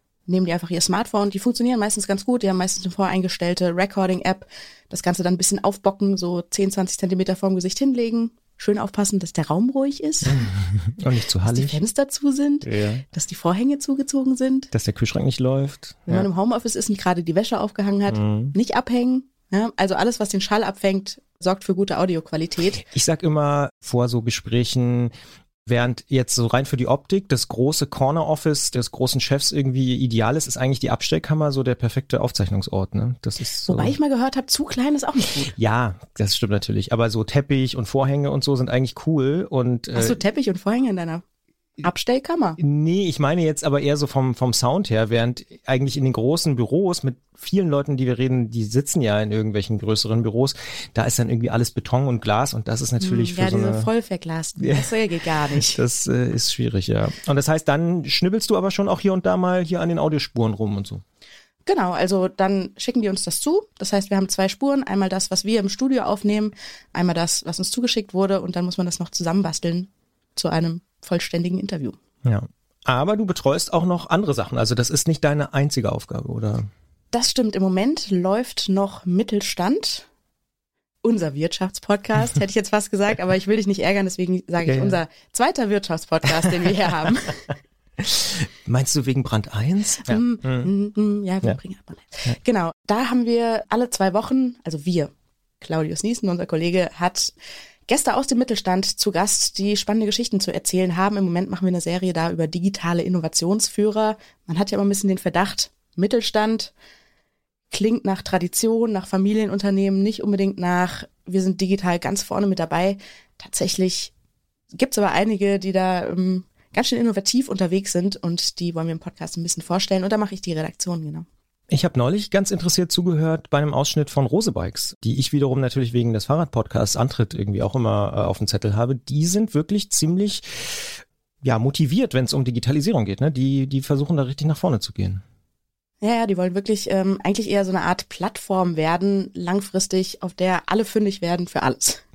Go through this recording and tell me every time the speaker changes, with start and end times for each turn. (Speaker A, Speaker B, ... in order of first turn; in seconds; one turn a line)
Speaker A: 0.3-10.4
Speaker B: 10.2-11.8
Speaker A: 11.4-14.7
Speaker B: 12.6-13.0
Speaker B: 14.7-16.3
Speaker A: 16.1-22.8
Speaker B: 18.1-18.5
Speaker B: 22.7-25.1
Speaker B: 25.6-34.0
Speaker A: 33.6-35.5
Speaker B: 35.5-40.2
Speaker A: 39.9-41.2
Speaker A: 41.8-42.6
Speaker B: 42.6-53.9
Speaker A: 53.0-55.8
Speaker B: 54.6-54.9
Speaker B: 55.5-61.0
Speaker A: 61.6-72.0
Speaker B: 72.2-76.7
Speaker A: 77.1-80.1
Speaker A: 81.0-87.5
Speaker B: 84.6-85.0
Speaker B: 86.7-87.1
Speaker B: 88.0-90.7
Speaker A: 90.0-97.3
Speaker A: 97.9-106.7
Speaker A: 107.7-114.1
Speaker A: 114.7-121.2
Speaker B: 121.7-135.2
Speaker A: 136.0-142.0